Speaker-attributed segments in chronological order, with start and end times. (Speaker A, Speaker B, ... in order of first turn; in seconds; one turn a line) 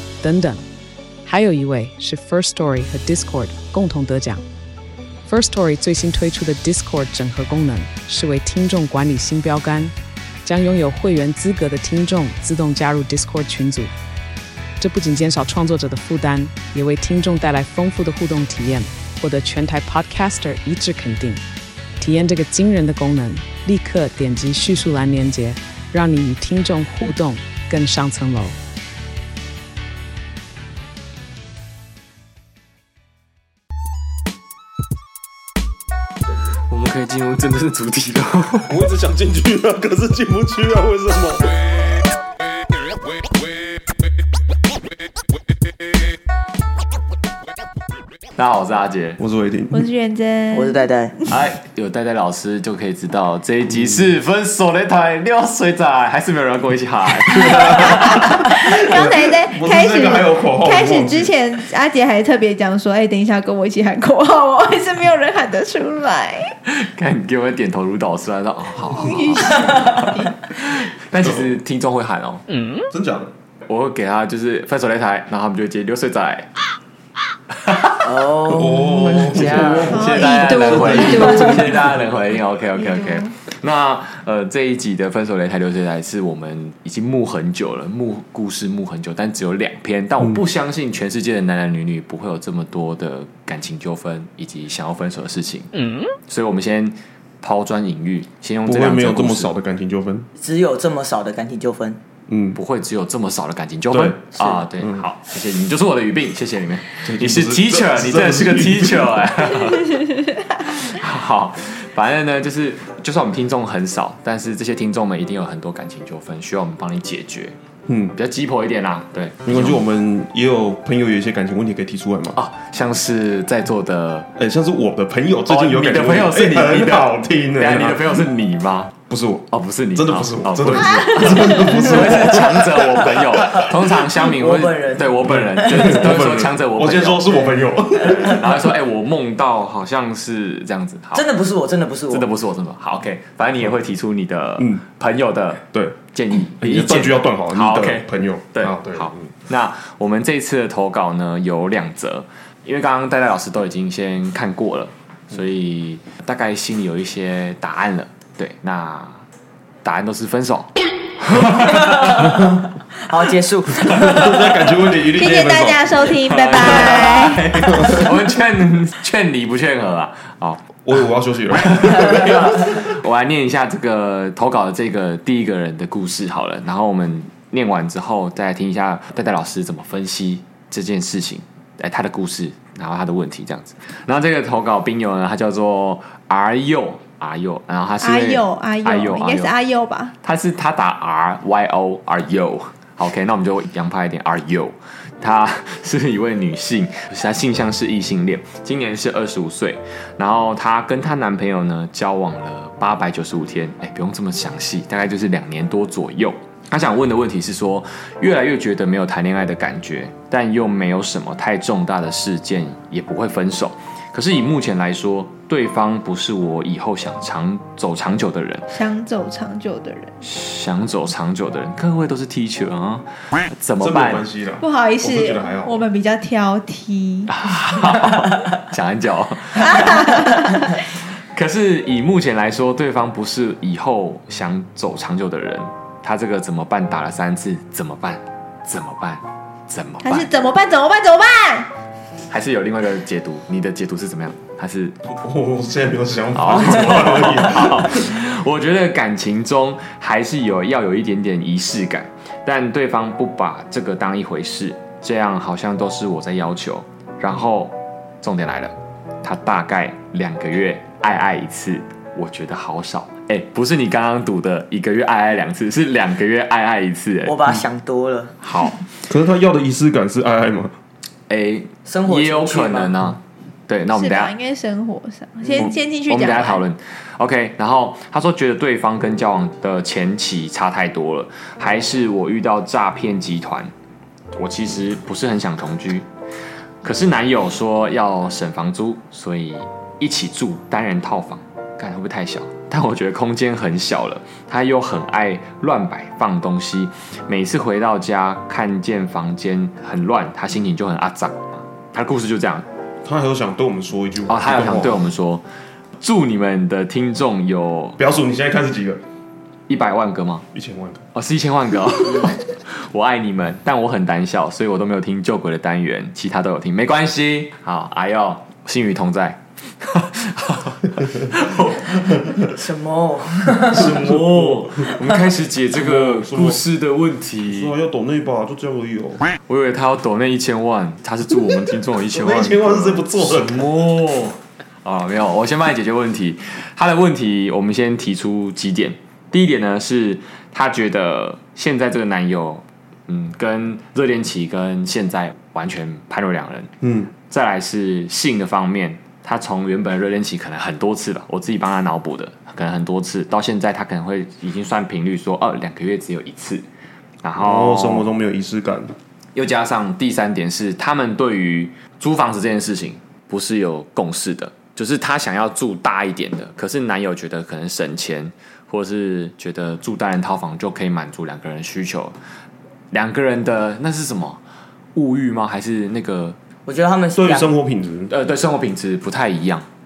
Speaker A: 0.2-0.6
Speaker A: 1.2-4.4
Speaker A: 5.2-13.9
Speaker A: 14.8-21.4
Speaker A: 22.0-28.5
Speaker B: 36.7-38.7
Speaker C: 38.6-41.9
Speaker B: 48.4-49.2
Speaker C: 49.2-49.9
Speaker D: 49.7-51.3
Speaker E: 50.5-51.1
Speaker B: 51.3-58.5
Speaker C: 57.5-61.3
Speaker D: 57.8-66.5
Speaker B: 66.7-72.8
Speaker D: 69.0-70.3
Speaker C: 71.2-71.5
Speaker C: 72.8-73.3
Speaker B: 73.7-76.5
Speaker B: 77.5-78.0
Speaker E: 78.0-81.2
Speaker C: 78.5-82.0
Speaker B: 79.0-99.5
Speaker D: 79.9-81.8
Speaker D: 82.7-83.3
Speaker C: 98.6-100.3
Speaker E: 100.4-102.0
Speaker C: 102.3-102.6
Speaker B: 102.5-117.5
Speaker C: 103.9-104.2
Speaker E: 104.4-104.6
Speaker C: 104.8-105.0
Speaker C: 107.0-109.3
Speaker C: 117.9-118.2
Speaker B: 118.1-119.8
Speaker C: 119.4-122.4
Speaker B: 122.3-124.3
Speaker C: 124.3-128.2
Speaker B: 125.5-128.9
Speaker C: 129.1-133.6
Speaker B: 129.5-141.3
Speaker D: 130.8-131.7
Speaker E: 131.9-132.4
Speaker E: 133.1-136.0
Speaker C: 135.2-138.7
Speaker E: 141.1-142.3
Speaker B: 142.1-159.2
Speaker C: 146.6-149.3
Speaker B: 159.8-162.3
Speaker E: 161.6-164.7
Speaker C: 163.9-165.9
Speaker D: 165.2-167.4
Speaker B: 166.2-170.8
Speaker C: 167.6-168.1
Speaker C: 170.8-172.7
Speaker B: 171.5-189.5
Speaker D: 188.0-190.1
Speaker B: 190.2-218.7
Speaker D: 218.7-220.1
Speaker B: 220.2-224.2
Speaker C: 223.8-225.8
Speaker D: 224.6-227.3
Speaker B: 227.3-230.3
Speaker D: 229.5-230.8
Speaker B: 231.3-240.3
Speaker D: 240.0-241.7
Speaker B: 242.3-244.9
Speaker C: 245.1-248.1
Speaker B: 246.3-267.4
Speaker E: 267.2-268.3
Speaker B: 268.4-268.8
Speaker C: 269.1-270.7
Speaker B: 271.3-274.3
Speaker E: 271.9-272.9
Speaker D: 273.9-276.6
Speaker B: 275.6-283.7
Speaker B: 284.3-286.1
Speaker B: 286.8-302.6
Speaker C: 303.0-305.1
Speaker B: 304.3-305.4
Speaker B: 306.0-308.0
Speaker C: 308.0-309.0
Speaker B: 309.7-310.4
Speaker C: 310.5-311.0
Speaker B: 311.1-322.4
Speaker E: 322.5-323.9
Speaker B: 323.7-327.7
Speaker C: 323.7-325.0
Speaker C: 325.7-326.6
Speaker C: 327.5-329.2
Speaker B: 329.5-346.7
Speaker C: 332.1-333.6
Speaker C: 346.8-347.1
Speaker B: 347.3-356.6
Speaker B: 357.2-358.1
Speaker C: 357.4-358.9
Speaker B: 359.3-372.1
Speaker B: 372.9-374.4
Speaker B: 374.9-376.4
Speaker E: 376.6-377.6
Speaker C: 377.1-378.1
Speaker B: 378.1-379.6